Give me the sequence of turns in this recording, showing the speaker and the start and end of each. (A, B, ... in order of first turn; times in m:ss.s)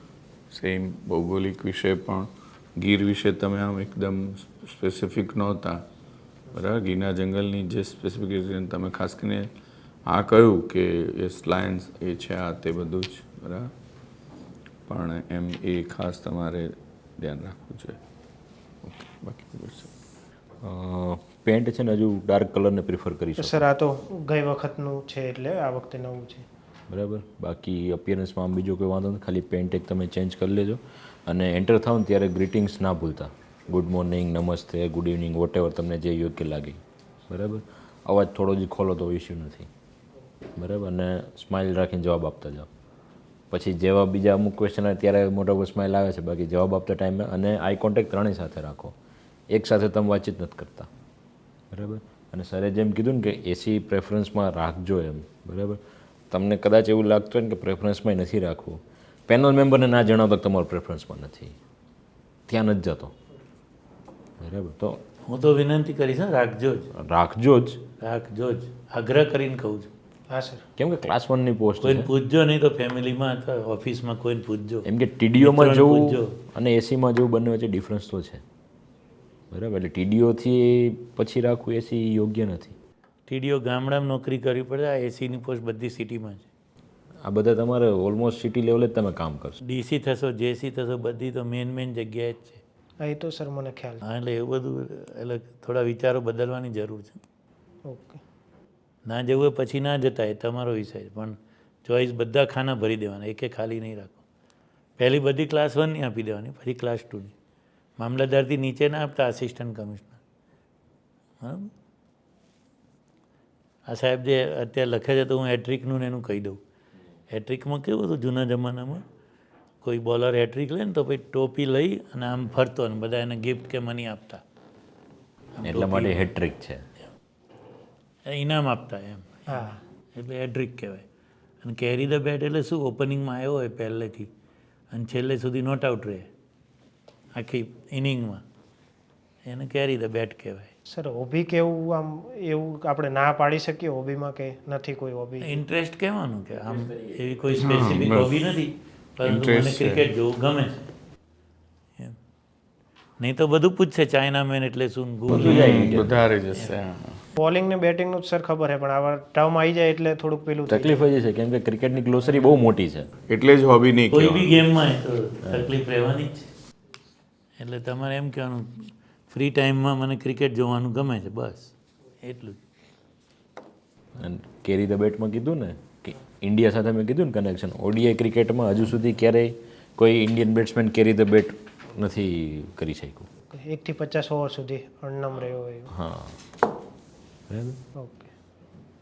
0:00.5-0:05.9 A
0:06.5-0:09.5 A
0:10.1-0:13.7 A
0:14.9-0:18.0 A
0:18.8-0:19.9 A
0:20.6-0:23.6 B
0:23.4-0:26.4 C
0:26.9-0:39.7 B
0:40.6-0:42.7 B
0:43.5-0:49.0 B
0:49.5-0:50.9 B
0:51.7-1:01.6 B
1:02.5-1:03.1 B
1:04.4-1:05.0 B
1:05.2-1:06.9 D
1:06.9-1:07.8 B
1:08.0-1:09.9 D
1:10.3-1:10.6 C
1:10.8-1:12.1 B
1:11.8-1:16.4 D
1:14.8-1:18.4 B
1:19.5-1:22.8 B
1:23.3-1:26.5 D
1:27.2-1:29.6 B
1:29.6-1:32.6 D
1:33.0-1:34.0 C
1:34.0-1:37.2 D
1:37.9-1:38.2 C
1:39.1-1:44.2 D
1:45.0-1:47.3 D
1:48.0-1:50.2 D
1:51.4-1:51.7 D
1:53.9-1:56.6 D
1:57.3-1:59.0 D
1:59.8-2:04.4 D
2:05.6-2:06.3 D
2:05.6-2:06.8 B
2:08.2-2:11.0 D
2:09.5-2:09.8 C
2:11.6-2:14.3 D
2:14.9-2:16.3 D
2:17.3-2:18.4 D
2:19.4-2:20.7 D
2:20.9-2:25.5 C
2:25.4-2:30.8 D
2:27.6-2:28.4 A
2:29.2-2:30.0 A
2:33.2-2:35.9 D
2:35.3-2:36.2 B
2:35.3-2:37.2 A
2:37.4-2:41.1 C
2:40.7-2:43.1 B
2:43.3-2:44.6 A
2:44.1-2:46.5 D
2:47.6-2:52.6 D
2:54.2-3:03.3 B
3:03.5-3:05.9 C
3:05.9-3:06.4 B
3:07.5-3:07.8 B
3:08.0-3:08.3 C